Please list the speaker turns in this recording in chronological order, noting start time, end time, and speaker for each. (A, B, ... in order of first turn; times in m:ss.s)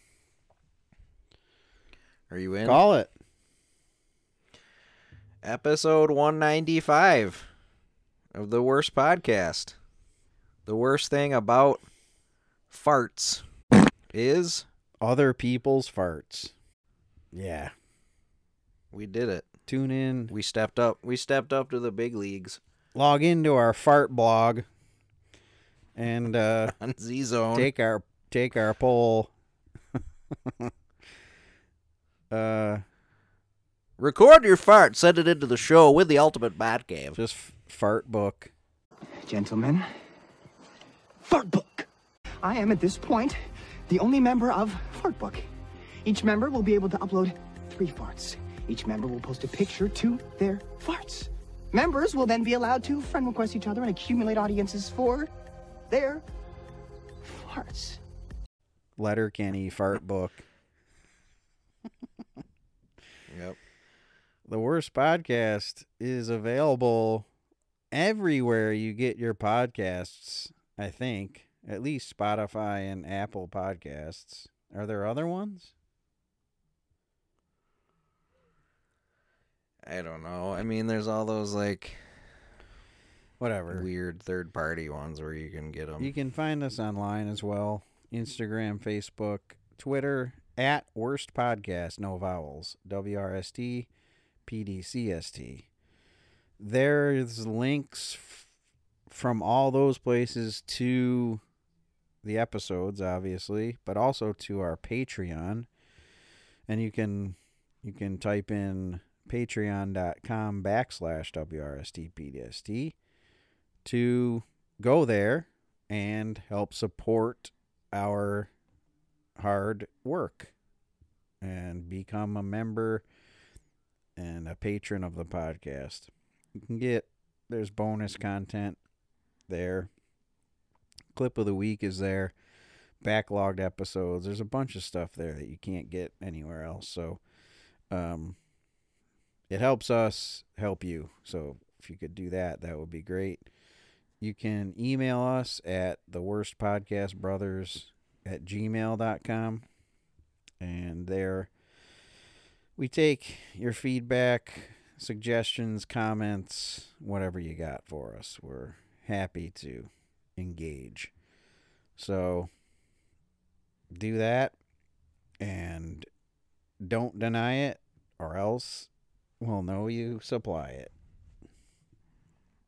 0:02.3-0:02.8 A
0:02.6-0:03.1 B
0:05.4-0:07.5 A
0:08.3-0:09.8 A
0:10.6-0:11.8 A
0:12.7-0:13.4 A
0:14.1-0:14.6 A
0:15.0-0:16.5 B
0:17.3-0:17.7 B
0:18.9-0:19.5 A
0:19.7-0:20.3 B
0:20.3-0:22.6 A
0:22.9-0:24.6 B
0:26.0-0:26.7 B
0:26.7-0:27.7 A
0:27.5-0:29.3 B
0:32.3-0:32.8 B
0:34.0-0:37.2 A
0:37.2-0:38.5 B
0:39.2-0:39.9 C
0:41.2-0:41.9 C
0:42.4-0:45.5 C
0:46.0-0:55.3 C
0:55.9-0:56.2 C
0:57.2-0:58.0 C
0:59.0-1:00.4 B
1:03.3-1:03.6 A
1:04.5-1:07.3 B
1:07.9-1:15.7 B
1:19.8-1:22.0 A
1:23.4-1:23.9 B
1:23.7-1:26.1 A
1:26.0-1:33.9 B
1:34.4-1:35.6 B
1:36.6-1:38.5 B
1:39.1-1:41.4 B
1:42.2-1:45.7 B
1:46.7-1:52.9 B
1:53.8-1:58.5 B
1:59.4-2:00.5 B
2:01.4-2:03.0 B
2:04.2-2:08.8 B
2:09.5-2:09.9 B
2:11.1-2:12.3 B
2:13.0-2:17.2 B
2:17.9-2:18.4 B
2:19.5-2:23.5 B
2:24.2-2:29.6 B
2:30.6-2:31.5 B
2:32.8-2:41.1 B
2:42.0-2:42.5 B
2:43.9-2:44.6 B
2:45.4-2:46.1 B
2:46.8-2:48.9 B
2:49.4-2:50.9 B